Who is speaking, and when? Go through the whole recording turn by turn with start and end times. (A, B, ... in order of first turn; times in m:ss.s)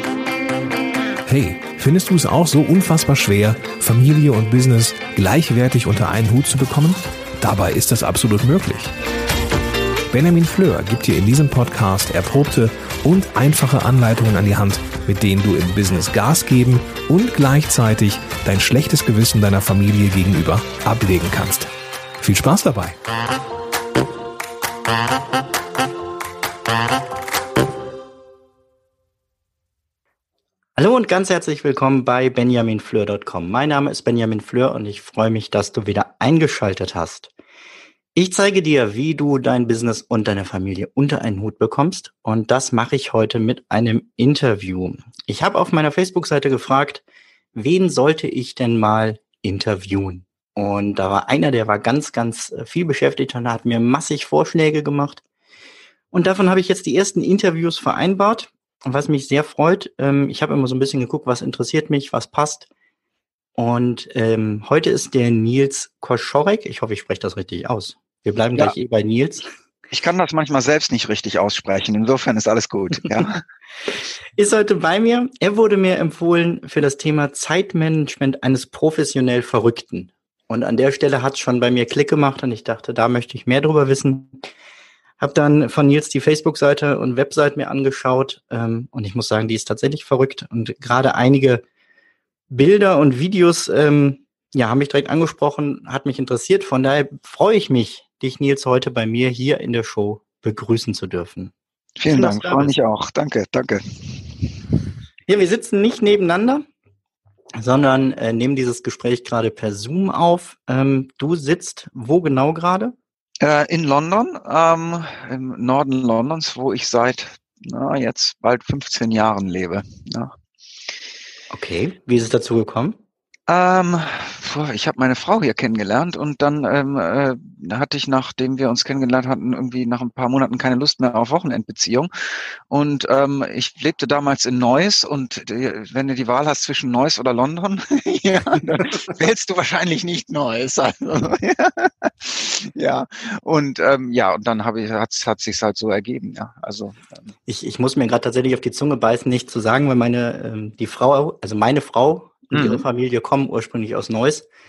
0:01.3-0:08.9 A
0:10.1-0:22.9 A
0:30.8-0:37.3 B
0:38.1-0:55.2 B
0:56.1-1:02.6 B
1:03.6-1:09.5 B
1:09.9-1:13.4 C
1:14.3-1:24.4 B
1:25.2-1:31.6 B
1:32.5-1:41.5 B
1:42.0-1:44.2 C
1:42.1-1:42.7 B
1:45.3-1:46.6 B
1:47.6-1:52.9 B
1:53.4-2:00.3 C
2:01.5-2:03.0 B
2:03.5-2:12.1 C
2:12.7-2:27.1 C
2:27.5-2:34.5 B
2:32.5-2:32.8 C